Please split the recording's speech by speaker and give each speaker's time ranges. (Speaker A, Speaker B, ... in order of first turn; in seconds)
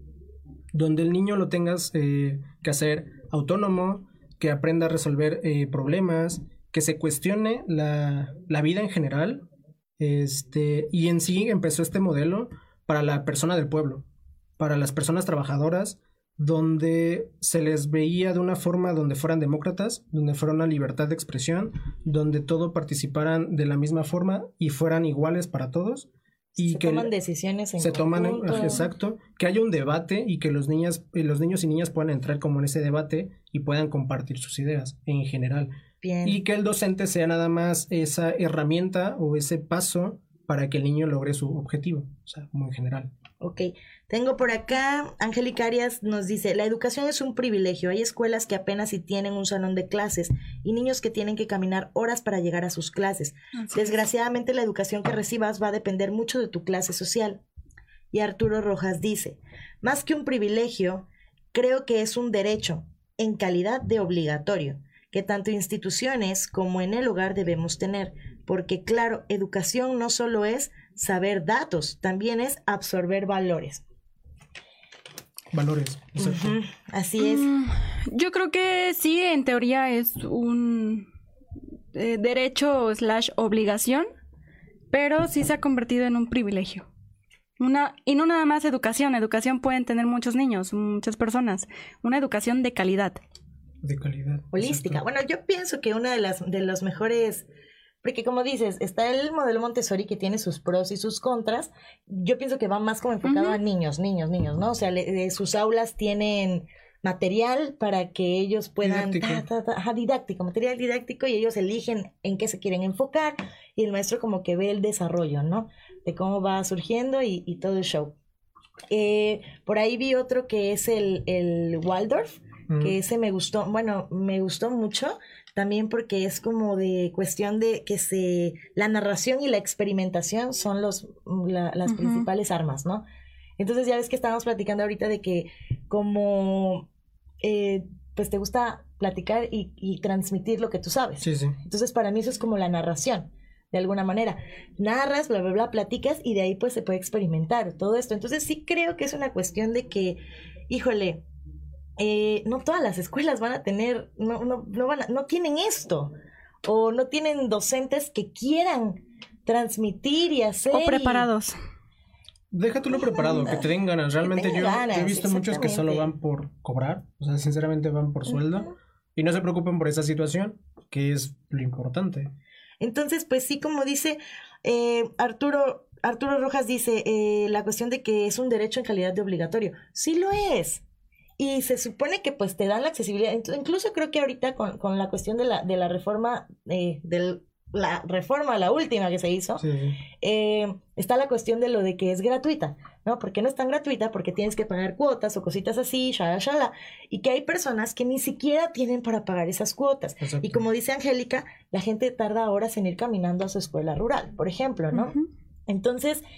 Speaker A: 0.7-9.4, 10.0-14.0, 14.6-27.1, 27.8-35.7, 36.2-43.1, 75.5-76.6, 93.8-95.0, 108.8-109.4, 122.7-123.0, 141.2-141.6, 162.5-172.3, 189.6-190.0, 200.2-200.7
Speaker B: 26.5-28.9, 36.0-36.4, 43.4-57.4, 58.1-73.8, 76.2-77.5, 94.5-97.5, 98.0-118.1, 118.9-133.0, 133.6-136.9, 137.4-151.2, 152.0-156.1, 156.6-161.3, 162.9-163.7, 164.2-166.1, 168.3-168.7, 172.8-180.8, 181.4-189.6, 190.2-205.1, 205.7-206.2
Speaker C: 53.6-54.0, 77.2-81.1, 81.9-84.1, 84.9-86.9, 87.6-93.2, 103.2-103.6, 131.9-132.3, 160.7-161.5, 204.9-205.2